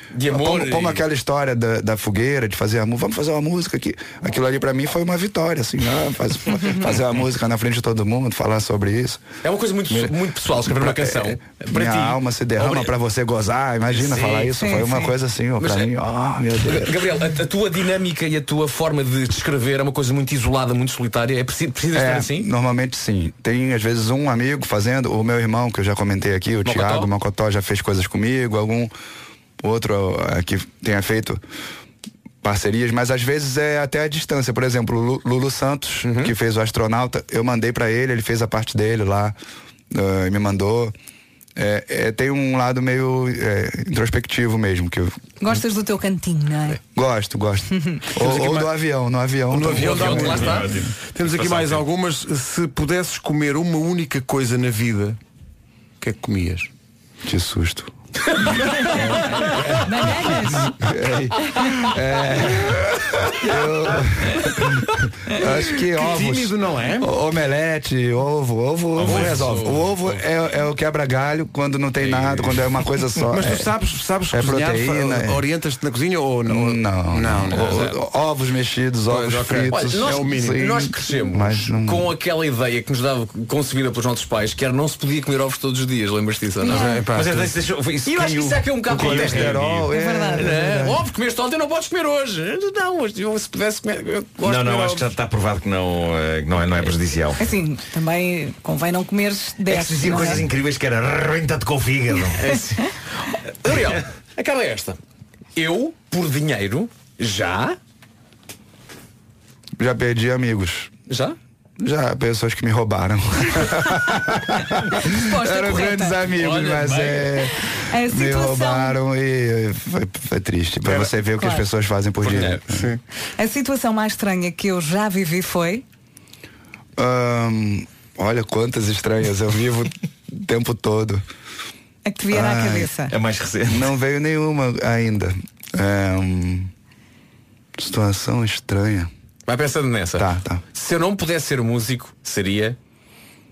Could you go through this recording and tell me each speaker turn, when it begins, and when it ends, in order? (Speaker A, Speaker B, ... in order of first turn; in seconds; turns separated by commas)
Speaker A: 0.1-1.1, Speaker B: 0.3-9.2, Speaker A: 9.4-12.9, Speaker B: 9.9-16.9, Speaker A: 13.9-14.9, Speaker C: 14.6-14.9, Speaker A: 15.6-15.9, Speaker A: 16.6-22.5, Speaker B: 21.9-28.9, Speaker A: 26.6-27.1, Speaker B: 29.6-31.4, Speaker B: 32.4-39.4, Speaker A: 36.0-36.3, Speaker B: 39.9-40.9, Speaker B: 41.6-45.1, Speaker C: 45.4-46.8, Speaker B: 46.9-50.3, Speaker D: 48.2-48.7, Speaker D: 49.5-55.2, Speaker A: 49.7-50.7, Speaker E: 50.0-51.8, Speaker D: 56.0-56.7, Speaker B: 57.3-57.9, Speaker B: 58.9-73.7, Speaker C: 59.8-60.7, Speaker D: 65.9-67.1, Speaker A: 69.0-70.1, Speaker D: 69.1-69.5, Speaker A: 72.0-72.6, Speaker D: 73.3-78.0, Speaker B: 74.3-75.4, Speaker B: 76.5-82.1, Speaker D: 79.1-80.6, Speaker A: 79.7-86.9, Speaker C: 86.6-87.1, Speaker D: 86.7-87.5, Speaker E: 87.1-89.9, Speaker A: 88.0-95.1, Speaker B: 88.9-91.0, Speaker C: 89.9-90.5, Speaker E: 94.4-97.4, Speaker C: 97.4-100.5, Speaker E: 99.7-102.4, Speaker A: 102.3-103.0, Speaker A: 103.6-105.0, Speaker A: 105.6-107.8, Speaker B: 109.8-110.9, Speaker A: 111.1-111.4, Speaker B: 111.8-122.9, Speaker C: 115.0-116.2, Speaker A: 116.3-117.5, Speaker C: 117.9-119.0, Speaker C: 121.3-121.7, Speaker A: 122.2-122.6, Speaker D: 122.3-123.0, Speaker C: 123.4-125.8, Speaker B: 127.0-131.2, Speaker C: 132.1-133.2, Speaker B: 132.3-133.0, Speaker E: 133.0-133.9, Speaker B: 133.7-136.7, Speaker B: 137.8-139.1, Speaker A: 139.5-142.8, Speaker B: 140.2-140.6